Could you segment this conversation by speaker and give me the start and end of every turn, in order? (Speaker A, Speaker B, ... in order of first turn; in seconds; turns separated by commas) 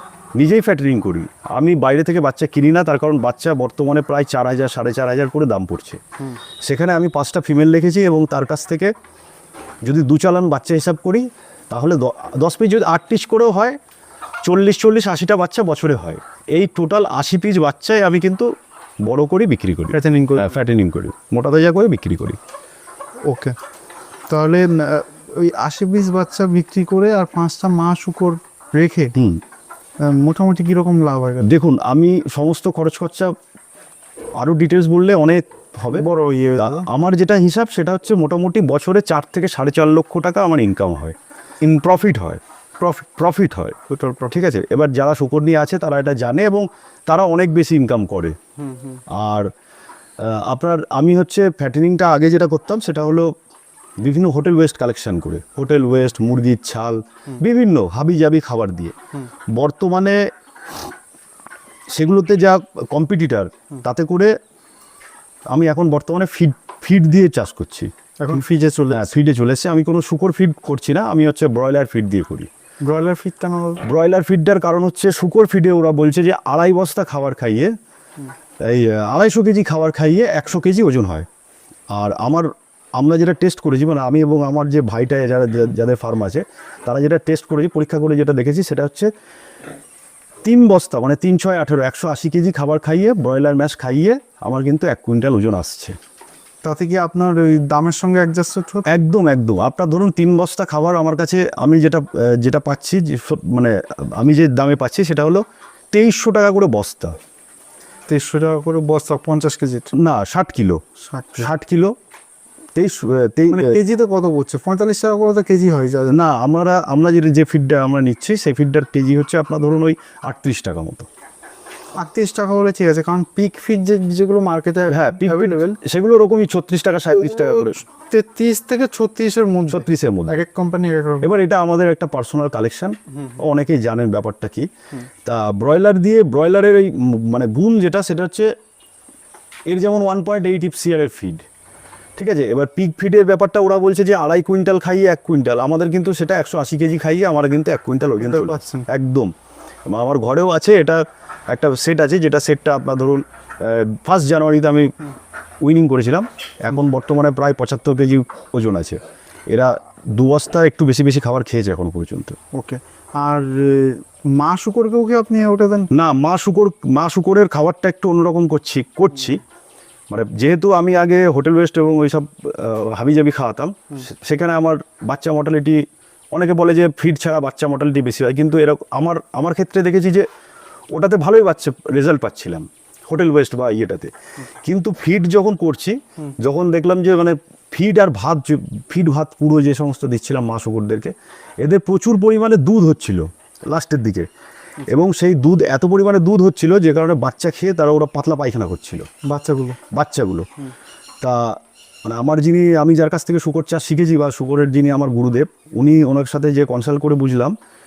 Speaker A: 0.3-6.0, Speaker A: 6.6-8.9, Speaker A: 9.8-13.8, Speaker A: 14.4-18.5, Speaker A: 19.0-22.4, Speaker B: 19.9-20.5, Speaker B: 23.3-23.5, Speaker B: 24.3-29.1, Speaker A: 29.1-29.4, Speaker B: 30.0-31.5, Speaker A: 31.4-33.3, Speaker A: 34.4-36.0, Speaker B: 35.9-36.9, Speaker A: 36.6-48.4, Speaker B: 43.9-44.3, Speaker B: 48.6-49.0, Speaker A: 49.1-49.5, Speaker A: 50.2-53.3, Speaker A: 54.0-58.9, Speaker A: 59.5-60.2, Speaker A: 61.9-64.3, Speaker A: 65.5-67.9, Speaker B: 68.2-69.1, Speaker A: 68.9-72.5, Speaker B: 72.8-73.8, Speaker A: 73.8-77.7, Speaker A: 78.6-81.3, Speaker A: 81.9-89.1, Speaker A: 90.4-96.0, Speaker B: 96.6-98.8, Speaker A: 98.9-107.2, Speaker B: 108.1-109.9, Speaker A: 109.9-110.8, Speaker B: 111.1-111.5, Speaker A: 111.4-111.9, Speaker A: 112.8-113.8, Speaker B: 113.5-116.2, Speaker A: 116.1-121.1, Speaker B: 122.0-125.8, Speaker A: 124.9-127.8, Speaker B: 127.3-131.3, Speaker A: 129.7-130.3, Speaker A: 131.2-134.7, Speaker A: 135.2-138.5, Speaker A: 139.7-141.4, Speaker A: 142.2-149.3, Speaker B: 148.2-148.8, Speaker A: 149.9-154.9, Speaker A: 155.6-162.4, Speaker B: 162.5-165.9, Speaker A: 165.9-169.4, Speaker A: 170.1-175.8, Speaker A: 176.3-180.3, Speaker A: 180.9-184.1, Speaker A: 184.6-194.3, Speaker A: 194.9-199.1, Speaker B: 199.2-199.8, Speaker A: 199.9-200.5, Speaker A: 201.2-207.5